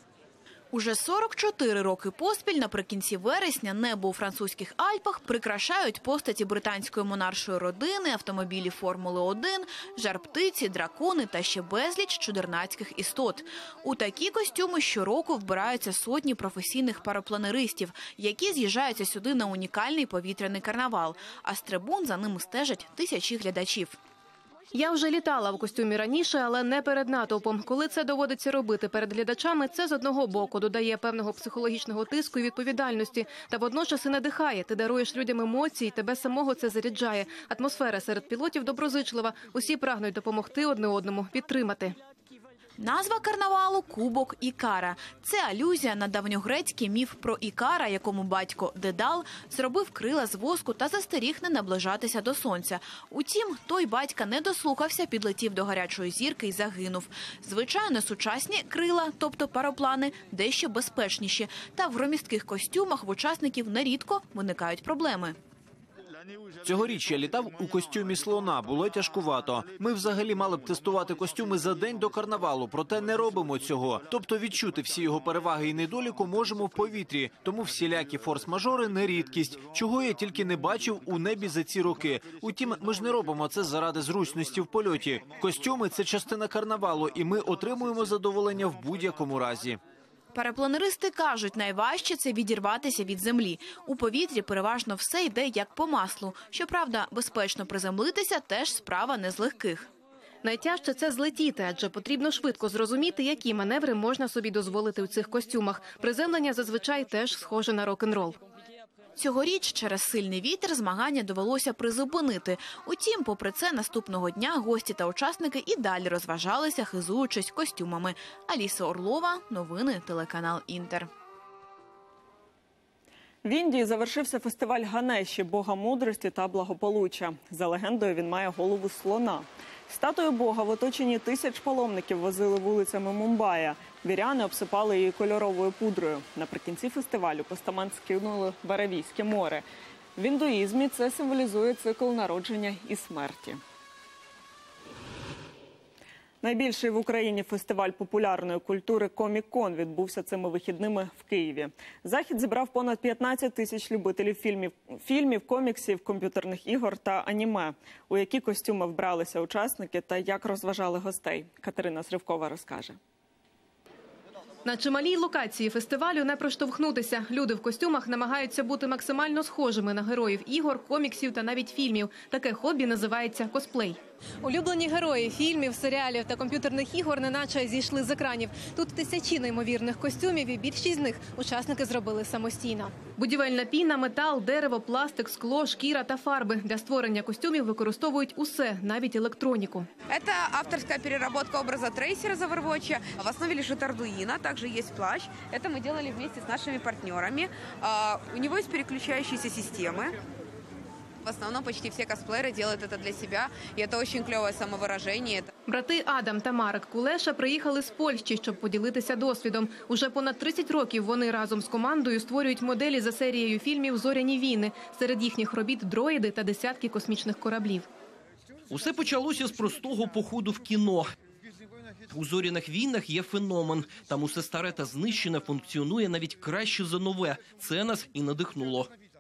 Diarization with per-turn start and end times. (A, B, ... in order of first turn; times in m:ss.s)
0:00.7-0:24.0 A
0:24.7-0:42.0 B
0:42.8-1:05.4 A
1:06.6-1:29.8 C
1:30.3-1:39.9 A
1:40.4-1:48.4 B
1:49.2-2:01.1 A
2:03.4-2:19.6 D
2:20.2-2:23.6 D
2:26.4-2:43.0 D
2:44.6-3:09.9 B
3:10.1-3:20.2 E
3:21.2-3:25.5 E
3:25.7-3:37.9 B
3:38.7-3:41.1 F
3:42.1-3:48.9 F